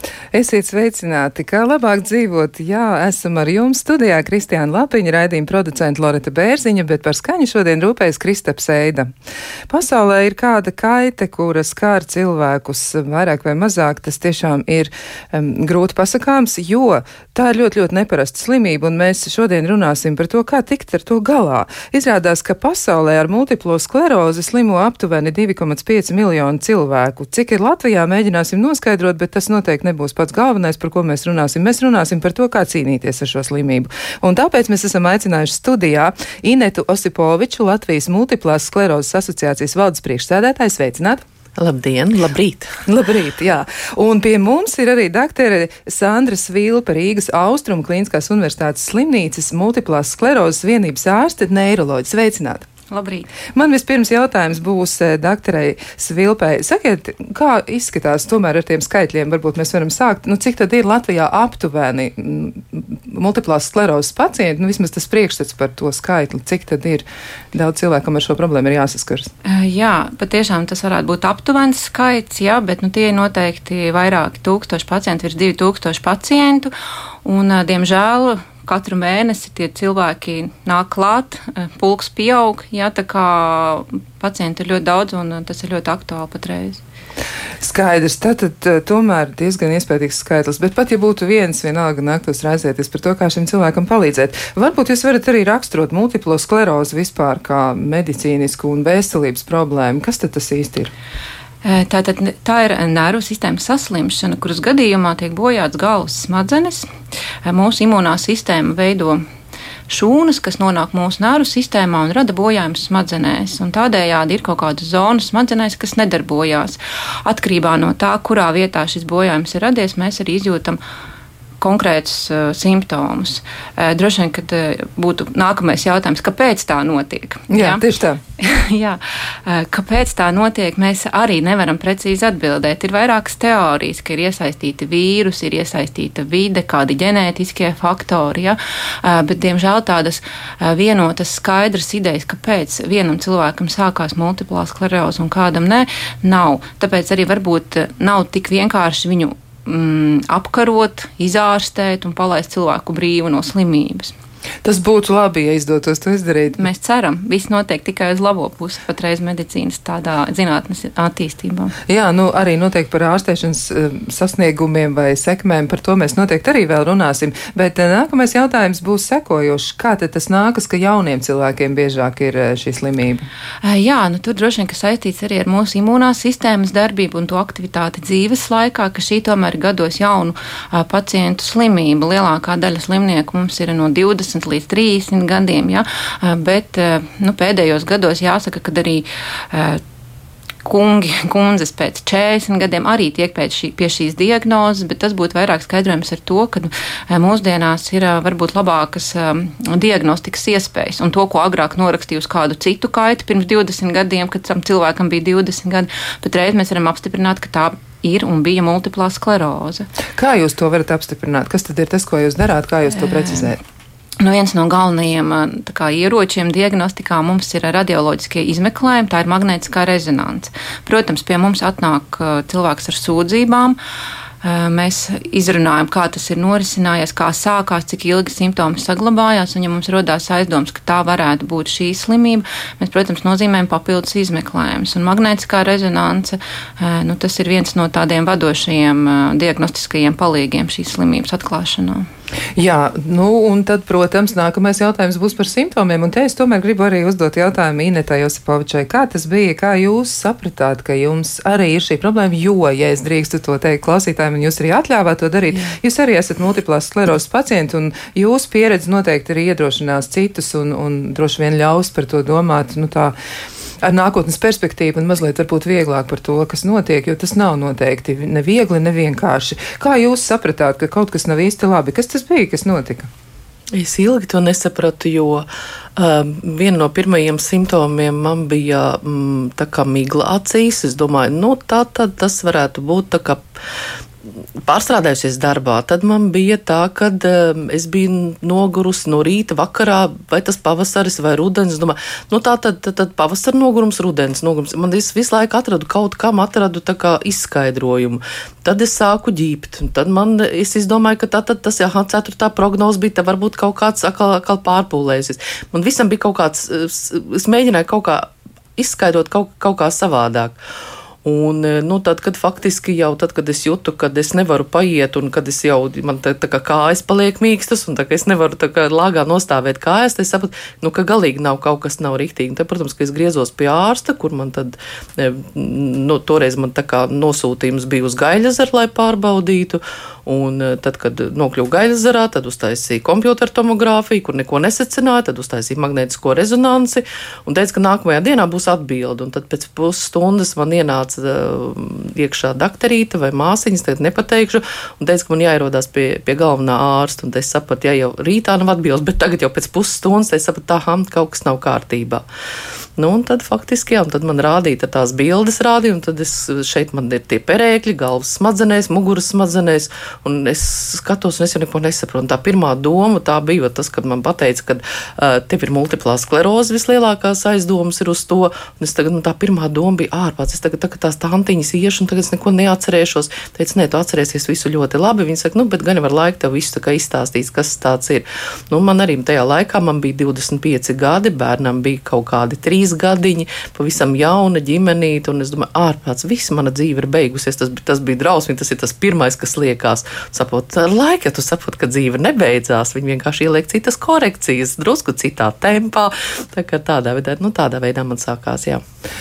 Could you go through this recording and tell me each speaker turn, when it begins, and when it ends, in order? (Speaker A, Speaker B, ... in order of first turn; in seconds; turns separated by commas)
Speaker A: 0.3-9.1, Speaker A: 9.7-41.2, Speaker B: 41.6-42.8, Speaker A: 42.9-52.7, Speaker C: 52.9-53.3, Speaker A: 53.5-69.3, Speaker C: 69.4-76.7, Speaker C: 77.2-86.8, Speaker A: 87.6-100.9, Speaker C: 101.6-106.9, Speaker C: 107.4-109.2, Speaker C: 109.9-120.8, Speaker C: 121.6-127.8, Speaker A: 127.5-128.2, Speaker C: 128.4-154.1, Speaker A: 154.6-156.7, Speaker C: 156.6-161.7, Speaker A: 161.9-173.2, Speaker C: 173.6-189.8, Speaker C: 190.6-209.9, Speaker A: 210.1-213.6, Speaker C: 213.0-213.5, Speaker C: 214.2-223.8, Speaker C: 224.4-242.1, Speaker A: 242.6-263.1, Speaker A: 263.8-273.1, Speaker B: 273.7-283.4, Speaker B: 284.6-310.6, Speaker B: 311.2-352.2, Speaker B: 353.0-398.8